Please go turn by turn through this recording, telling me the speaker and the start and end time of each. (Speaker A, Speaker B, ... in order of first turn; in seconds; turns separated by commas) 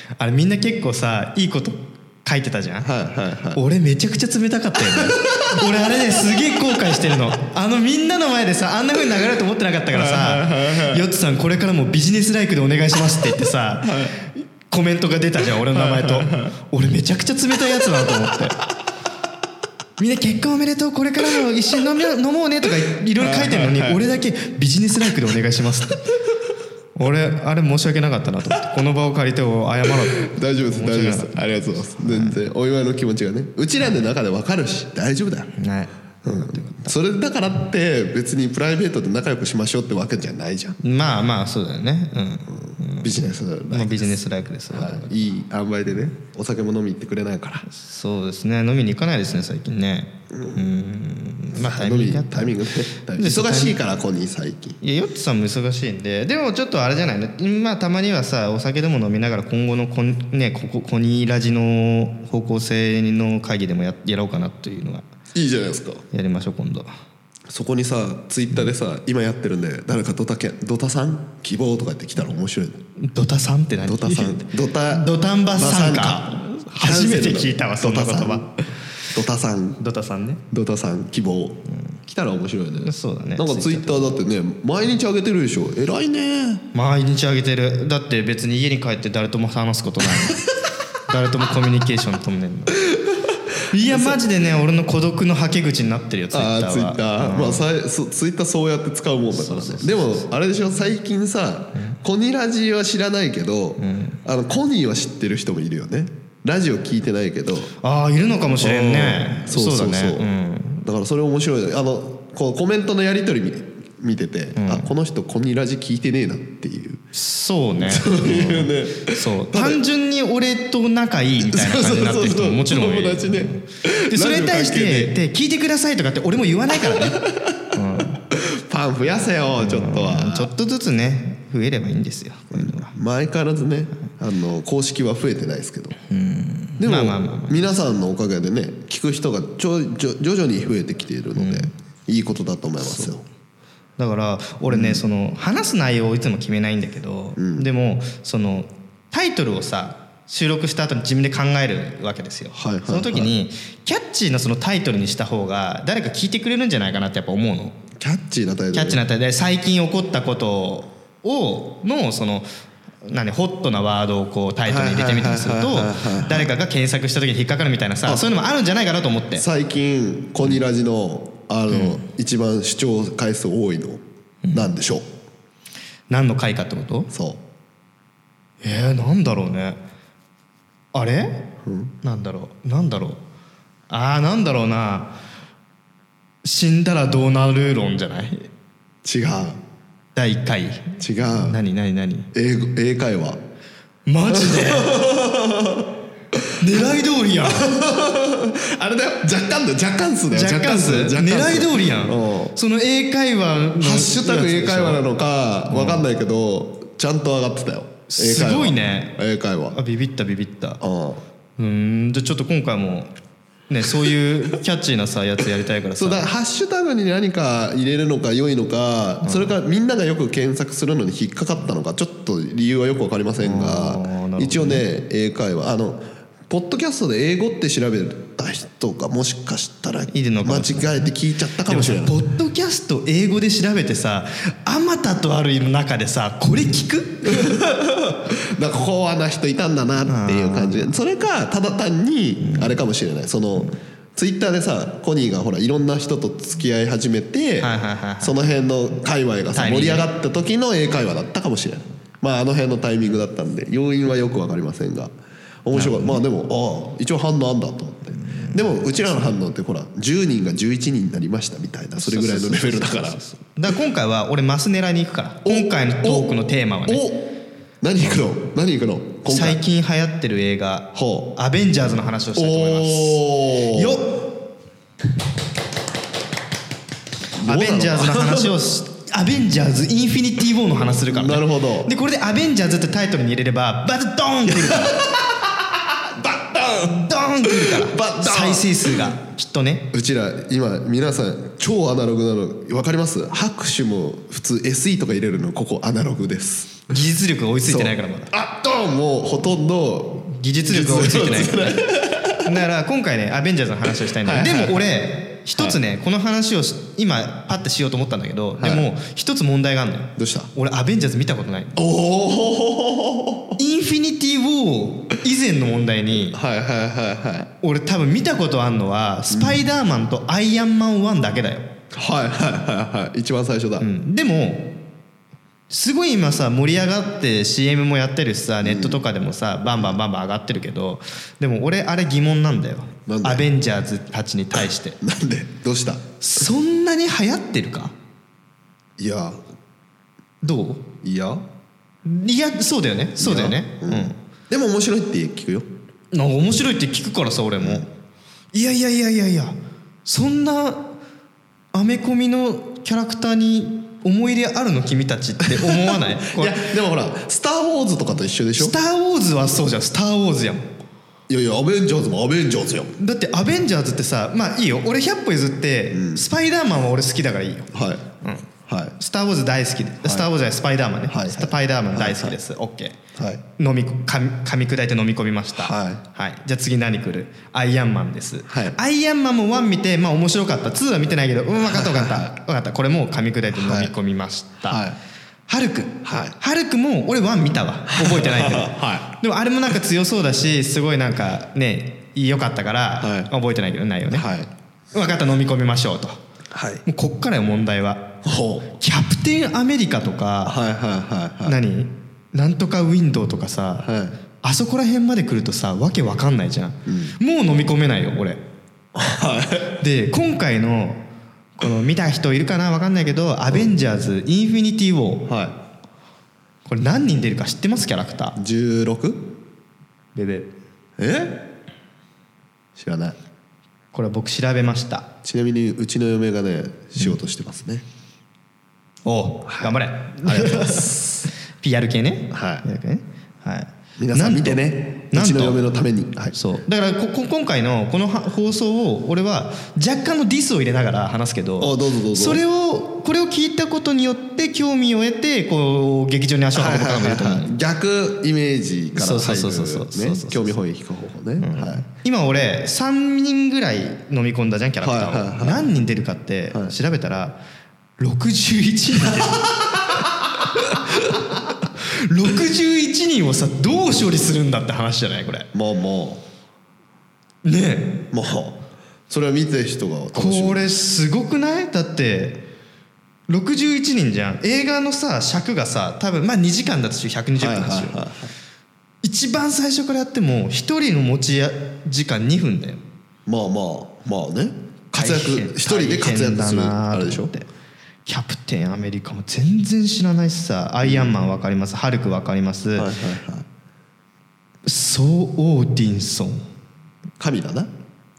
Speaker A: 0.2-2.9, Speaker B: 2.8-3.6, Speaker A: 3.5-18.6, Speaker B: 4.9-7.2, Speaker B: 9.9-11.0, Speaker B: 13.8-14.2, Speaker B: 15.7-16.5, Speaker B: 17.7-18.4, Speaker A: 20.0-26.0, Speaker B: 23.2-24.0, Speaker A: 26.9-31.4, Speaker B: 29.9-35.5, Speaker A: 32.0-32.4, Speaker A: 35.6-36.9, Speaker B: 36.2-40.8, Speaker A: 40.8-45.3, Speaker B: 42.5-44.1, Speaker B: 44.7-47.6, Speaker A: 47.6-52.6, Speaker B: 50.3-50.6, Speaker B: 51.5-54.8, Speaker A: 53.1-53.8, Speaker A: 54.8-65.0, Speaker B: 65.3-66.0, Speaker A: 66.1-66.9, Speaker B: 67.5-72.8, Speaker A: 73.0-78.4, Speaker B: 73.8-78.5, Speaker B: 79.1-79.8, Speaker A: 79.8-80.4, Speaker B: 80.5-86.6, Speaker A: 82.8-84.1, Speaker A: 86.7-90.4, Speaker B: 90.0-90.7, Speaker A: 91.1-92.8, Speaker B: 92.7-94.5, Speaker A: 93.7-97.7, Speaker B: 96.3-107.7, Speaker A: 99.3-100.2, Speaker A: 103.8-104.2, Speaker A: 107.8-110.8, Speaker B: 108.6-110.3, Speaker B: 110.8-117.0, Speaker A: 114.5-114.9, Speaker A: 117.1-127.2, Speaker B: 117.8-119.8, Speaker B: 121.4-125.2, Speaker B: 126.7-130.5, Speaker A: 127.7-128.2, Speaker A: 129.6-132.9, Speaker B: 132.5-136.0, Speaker A: 136.1-137.8, Speaker B: 136.8-143.2, Speaker A: 141.3-141.7, Speaker A: 142.8-143.2, Speaker A: 144.0-157.8, Speaker B: 144.7-145.0, Speaker B: 147.4-147.7, Speaker B: 152.5-153.3, Speaker B: 158.0-159.0, Speaker A: 158.7-162.4, Speaker A: 163.0-169.4, Speaker B: 164.7-166.5, Speaker B: 169.3-174.0, Speaker A: 171.7-172.0, Speaker A: 174.4-174.7, Speaker B: 174.5-175.1, Speaker A: 176.1-177.1, Speaker B: 177.1-177.4, Speaker A: 178.6-179.8, Speaker A: 180.9-181.4, Speaker B: 181.6-181.9, Speaker A: 182.0-183.2, Speaker A: 183.9-185.1, Speaker A: 186.4-188.5, Speaker B: 189.0-189.6, Speaker A: 190.2-192.3, Speaker B: 191.0-191.6, Speaker B: 192.3-193.4, Speaker A: 194.1-195.0, Speaker B: 194.3-196.8, Speaker A: 196.6-197.7, Speaker B: 197.4-202.6, Speaker A: 200.3-205.0, Speaker B: 203.8-209.8, Speaker A: 205.7-206.0, Speaker A: 208.1-209.2, Speaker A: 209.7-210.8, Speaker B: 210.8-211.2, Speaker A: 211.6-213.1, Speaker A: 213.7-216.3, Speaker B: 215.9-232.2, Speaker A: 219.2-219.5, Speaker A: 223.4-224.8, Speaker A: 230.1-231.1, Speaker A: 231.7-237.5, Speaker B: 237.2-255.1, Speaker A: 240.1-240.9, Speaker A: 242.4-242.7, Speaker A: 247.6-248.5, Speaker A: 249.5-250.1, Speaker B: 255.6-263.2, Speaker A: 255.7-256.2, Speaker A: 258.2-258.6, Speaker A: 262.0-267.1, Speaker B: 265.4-269.6, Speaker A: 269.3-274.3, Speaker B: 270.9-271.3, Speaker B: 272.4-274.0, Speaker A: 277.4-284.9, Speaker B: 277.4-278.6, Speaker B: 281.1-281.9, Speaker B: 284.4-289.1, Speaker A: 286.8-289.9, Speaker B: 289.9-296.9, Speaker A: 296.9-298.3, Speaker B: 297.6-302.5, Speaker A: 300.2-301.9, Speaker A: 302.4-311.8, Speaker B: 304.0-304.9, Speaker B: 308.6-308.9, Speaker B: 310.2-310.5, Speaker B: 311.8-313.6, Speaker A: 313.6-316.4, Speaker B: 316.3-317.5, Speaker A: 317.6-321.7, Speaker B: 319.3-319.6, Speaker B: 321.9-323.9, Speaker A: 323.8-324.7, Speaker A: 325.7-335.0, Speaker B: 328.6-329.0, Speaker B: 333.1-333.4, Speaker B: 334.5-336.0, Speaker A: 336.2-337.9, Speaker B: 339.0-339.4, Speaker A: 340.4-340.9, Speaker B: 341.0-341.4, Speaker A: 342.0-344.1, Speaker B: 343.2-345.6, Speaker A: 346.1-347.9, Speaker B: 347.6-347.9, Speaker A: 348.5-350.9, Speaker A: 351.7-356.7, Speaker B: 355.4-358.7, Speaker A: 358.6-360.7, Speaker B: 361.3-362.9, Speaker A: 363.0-368.5, Speaker B: 365.9-366.2, Speaker B: 367.7-368.0, Speaker B: 368.7-368.9, Speaker A: 369.0-373.0, Speaker B: 370.0-370.3, Speaker B: 371.1-372.4, Speaker B: 373.1-373.4, Speaker A: 373.6-384.8, Speaker B: 375.6-376.0, Speaker B: 378.5-378.8, Speaker B: 381.6-382.3, Speaker B: 383.5-383.9, Speaker B: 384.6-385.0, Speaker A: 385.5-394.3, Speaker B: 386.0-386.4, Speaker B: 387.9-389.1, Speaker B: 393.0-393.3, Speaker B: 394.1-394.5, Speaker A: 394.9-396.2, Speaker B: 396.5-396.8, Speaker A: 396.9-398.1, Speaker B: 398.2-398.7, Speaker A: 398.8-400.6, Speaker B: 400.4-401.6, Speaker A: 401.4-403.9, Speaker B: 403.8-404.1, Speaker A: 404.4-408.4, Speaker B: 406.9-407.1, Speaker B: 408.9-409.8, Speaker A: 409.8-411.0, Speaker A: 411.6-415.3, Speaker B: 415.3-415.6, Speaker A: 416.6-418.4, Speaker B: 418.4-419.3, Speaker A: 420.1-420.5, Speaker B: 421.0-421.4, Speaker B: 422.8-423.2, Speaker A: 423.9-425.1, Speaker B: 425.2-427.8, Speaker A: 429.1-435.7, Speaker B: 429.4-431.3, Speaker B: 432.3-432.6, Speaker B: 434.0-436.3, Speaker A: 436.3-447.5, Speaker B: 441.6-442.4, Speaker B: 446.5-451.8, Speaker A: 448.9-450.6, Speaker A: 451.4-457.4, Speaker B: 454.8-455.7, Speaker A: 458.0-465.5, Speaker B: 465.5-466.2, Speaker A: 467.4-468.1, Speaker B: 468.1-470.7, Speaker A: 470.1-472.4, Speaker A: 473.3-478.0, Speaker B: 477.4-478.3, Speaker A: 479.0-482.8, Speaker B: 483.2-487.3, Speaker A: 484.9-487.4, Speaker A: 488.1-492.9, Speaker B: 490.8-491.1, Speaker B: 492.8-493.5, Speaker A: 494.6-496.4, Speaker B: 497.2-497.7